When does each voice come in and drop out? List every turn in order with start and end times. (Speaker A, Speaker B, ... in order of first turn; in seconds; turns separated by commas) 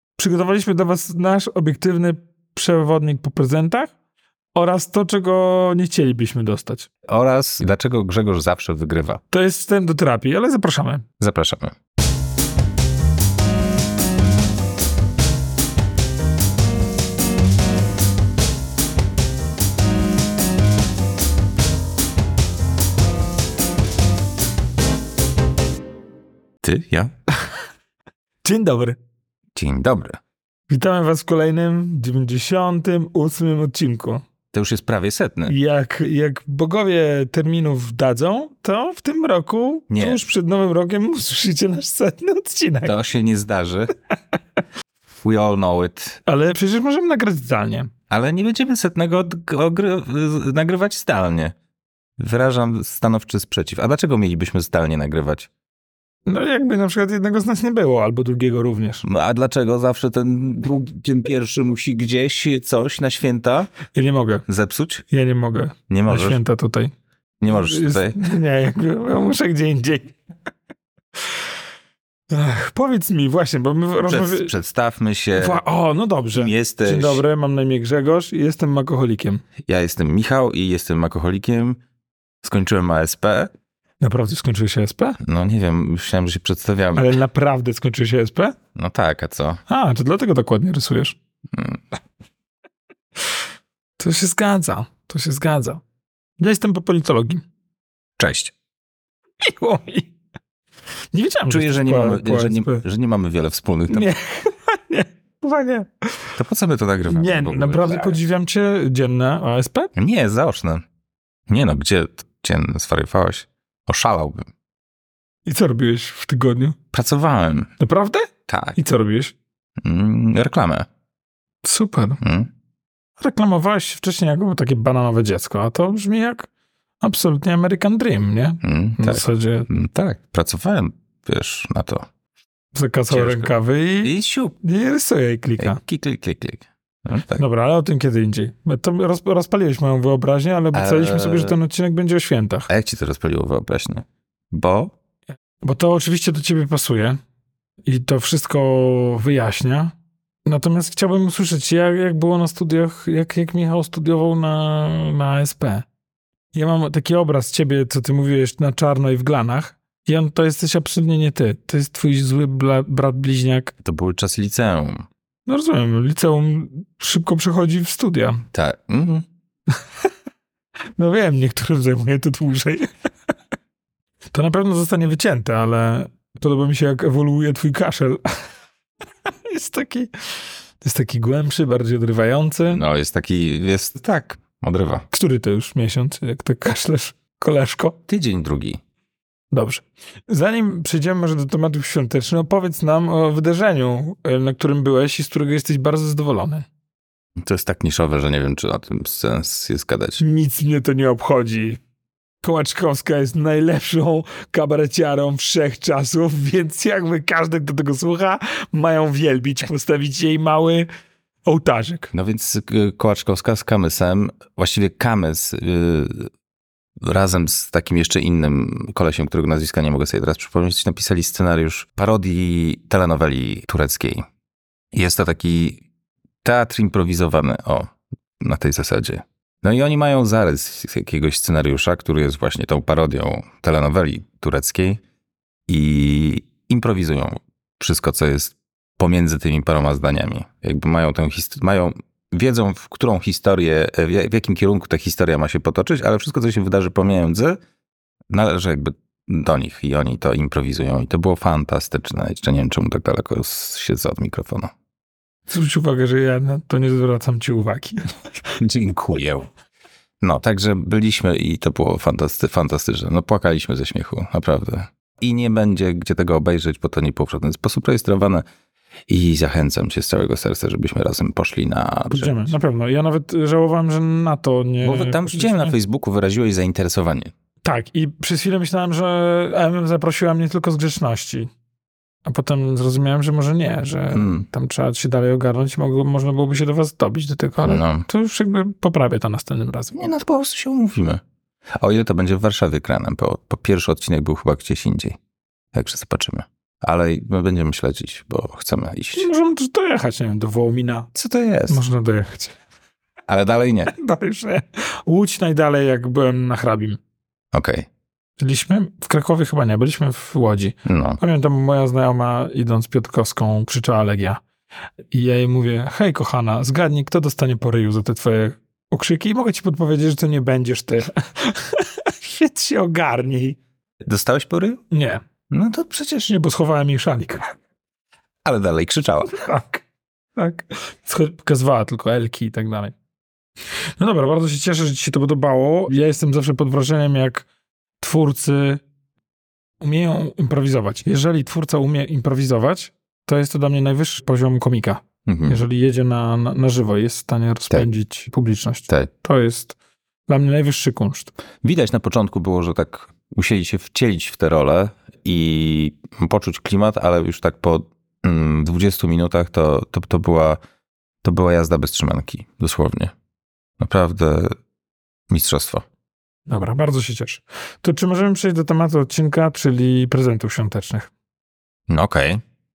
Speaker A: 0.2-3.9, Speaker A: 4.5-6.9, Speaker B: 7.1-9.2, Speaker A: 9.3-11.0, Speaker B: 11.2-11.7, Speaker B: 26.6-27.1, Speaker A: 28.4-29.0, Speaker B: 29.6-30.2, Speaker A: 30.7-34.2, Speaker B: 34.5-35.5, Speaker A: 35.5-42.9, Speaker B: 39.9-40.2, Speaker B: 42.8-43.9, Speaker B: 45.2-46.2, Speaker A: 46.2-47.9, Speaker B: 48.1-51.5, Speaker B: 52.2-55.5, Speaker A: 56.2-59.0, Speaker B: 59.0-63.7, Speaker A: 63.9-64.4, Speaker B: 64.5-65.0, Speaker A: 65.1-66.9, Speaker B: 65.9-66.4, Speaker B: 67.4-68.2, Speaker A: 67.5-70.1, Speaker A: 72.3-74.5, Speaker B: 74.0-75.6, Speaker A: 75.3-79.4, Speaker B: 76.3-77.2, Speaker B: 79.6-81.8, Speaker B: 82.4-83.5, Speaker A: 84.0-85.2, Speaker B: 85.2-87.1, Speaker A: 86.9-88.5, Speaker B: 88.8-89.6, Speaker A: 89.7-91.2, Speaker B: 91.5-91.8, Speaker A: 94.0-95.8, Speaker A: 96.4-97.4, Speaker B: 98.2-98.5, Speaker A: 99.4-100.1, Speaker A: 101.1-102.8, Speaker B: 101.5-104.1, Speaker A: 103.9-106.3, Speaker B: 106.3-108.2, Speaker A: 107.1-109.9, Speaker B: 110.0-110.8, Speaker B: 111.5-114.5, Speaker A: 115.4-116.8, Speaker B: 116.9-117.7, Speaker A: 117.8-119.3, Speaker B: 118.5-118.8, Speaker B: 119.8-120.9, Speaker A: 121.6-122.2, Speaker B: 122.2-122.5, Speaker A: 123.2-126.5, Speaker A: 127.0-129.7, Speaker B: 128.6-132.1, Speaker A: 132.7-135.8, Speaker B: 133.1-133.5, Speaker B: 134.0-134.5, Speaker B: 135.6-137.4, Speaker A: 137.3-142.7, Speaker B: 140.7-141.6, Speaker B: 142.7-144.9, Speaker A: 145.6-147.2, Speaker A: 147.8-149.9, Speaker A: 150.4-155.8, Speaker A: 156.5-163.7, Speaker B: 163.8-165.1, Speaker A: 165.5-168.4, Speaker B: 168.5-169.2, Speaker A: 171.0-172.9, Speaker A: 174.3-178.2, Speaker A: 179.2-182.8, Speaker B: 182.7-185.0, Speaker A: 185.1-188.0, Speaker B: 188.1-188.8, Speaker A: 189.5-196.7, Speaker B: 197.4-200.2, Speaker A: 200.2-201.8, Speaker A: 202.4-210.9, Speaker A: 211.4-212.1, Speaker B: 212.1-216.3, Speaker B: 217.0-224.2, Speaker B: 224.9-225.8, Speaker B: 226.4-235.0, Speaker B: 235.7-247.6, Speaker B: 248.3-254.7, Speaker A: 255.5-258.0, Speaker B: 258.6-259.5, Speaker B: 260.2-268.4, Speaker B: 269.1-272.3, Speaker A: 272.1-275.7, Speaker B: 274.8-277.3, Speaker A: 277.6-281.5, Speaker A: 282.2-290.0, Speaker B: 284.1-284.5, Speaker B: 287.6-288.1, Speaker B: 289.9-291.2, Speaker B: 291.8-295.2, Speaker B: 295.7-299.3, Speaker A: 299.1-301.1, Speaker B: 301.1-301.8, Speaker A: 301.7-302.6, Speaker B: 303.3-303.9, Speaker A: 303.9-307.0, Speaker B: 307.5-307.9, Speaker A: 308.4-314.4, Speaker B: 310.9-311.2, Speaker A: 315.1-323.6, Speaker B: 324.1-324.8, Speaker A: 324.9-325.2, Speaker B: 325.5-326.3, Speaker A: 326.3-327.5, Speaker B: 328.4-329.5, Speaker A: 329.3-329.8, Speaker A: 330.4-332.9, Speaker A: 334.0-337.4, Speaker A: 338.0-338.8, Speaker A: 339.8-349.8, Speaker B: 345.2-345.6, Speaker A: 350.3-351.3, Speaker B: 351.6-360.6, Speaker B: 361.2-363.1, Speaker B: 363.8-364.5, Speaker B: 365.3-365.8, Speaker A: 366.5-371.1, Speaker B: 371.9-372.4